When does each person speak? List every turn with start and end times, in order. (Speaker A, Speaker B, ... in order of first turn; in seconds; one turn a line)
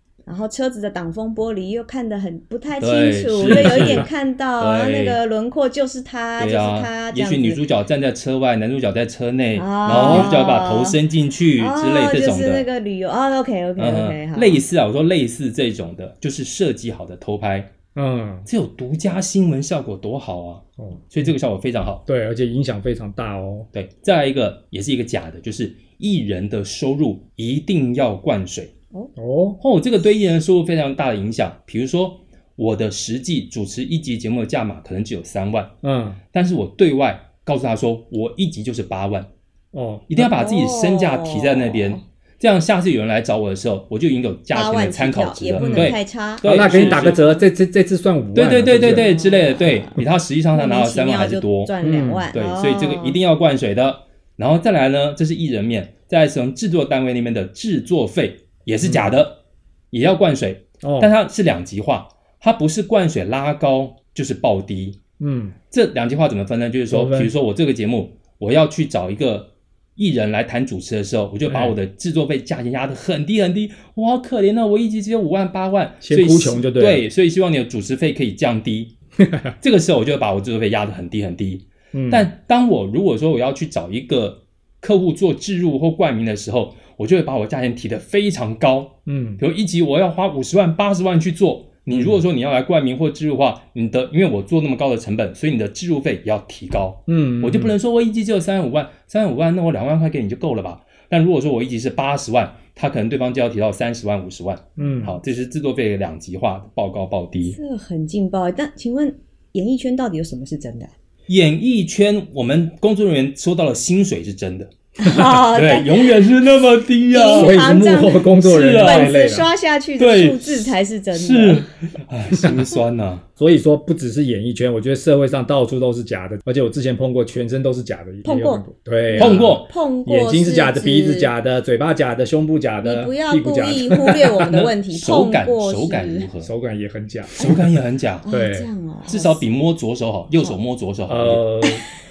Speaker A: 0.3-7.6
Speaker B: 2.8-4.1
Speaker C: 3.5-4.0
Speaker B: 4.6-5.2
Speaker B: 6.4-12.7
Speaker A: 9.6-11.0
Speaker C: 9.9-10.3
Speaker A: 11.6-14.6
Speaker B: 13.8-17.7
Speaker C: 17.9-18.5
Speaker B: 18.5-22.0
Speaker C: 20.8-21.1
Speaker C: 22.1-23.7
Speaker B: 23.7-28.7
Speaker C: 29.2-29.6
Speaker B: 29.6-35.7
Speaker C: 35.8-36.2
Speaker B: 36.3-39.3
Speaker C: 39.7-40.2
Speaker B: 40.1-47.2
Speaker A: 40.2-42.0
Speaker A: 44.5-47.4
Speaker C: 45.6-49.0
Speaker B: 48.4-51.7
Speaker A: 48.8-53.2
Speaker C: 51.8-52.3
Speaker B: 52.3-59.4
Speaker C: 58.8-59.2
Speaker B: 59.9-65.0
Speaker C: 60.8-61.1
Speaker C: 65.2-65.5
Speaker B: 65.7-78.9
Speaker C: 66.9-67.3
Speaker C: 71.5-71.8
Speaker C: 76.0-77.0
Speaker C: 79.3-79.5
Speaker B: 79.6-107.6
Speaker C: 81.9-82.3
Speaker C: 89.1-89.4
Speaker C: 91.9-92.2
Speaker C: 97.1-97.8
Speaker C: 104.8-105.2
Speaker A: 107.5-110.9
Speaker B: 111.3-114.7
Speaker A: 115.0-116.3
Speaker B: 115.3-117.7
Speaker A: 117.1-121.7
Speaker C: 117.3-119.5
Speaker B: 118.4-119.2
Speaker B: 120.0-123.2
Speaker C: 123.4-134.3
Speaker A: 128.2-131.3
Speaker B: 129.2-129.7
Speaker A: 132.8-136.3
Speaker B: 134.5-136.5
Speaker C: 136.4-137.5
Speaker B: 137.4-138.3
Speaker A: 138.3-139.4
Speaker C: 138.3-138.7
Speaker B: 139.1-141.4
Speaker C: 141.1-141.8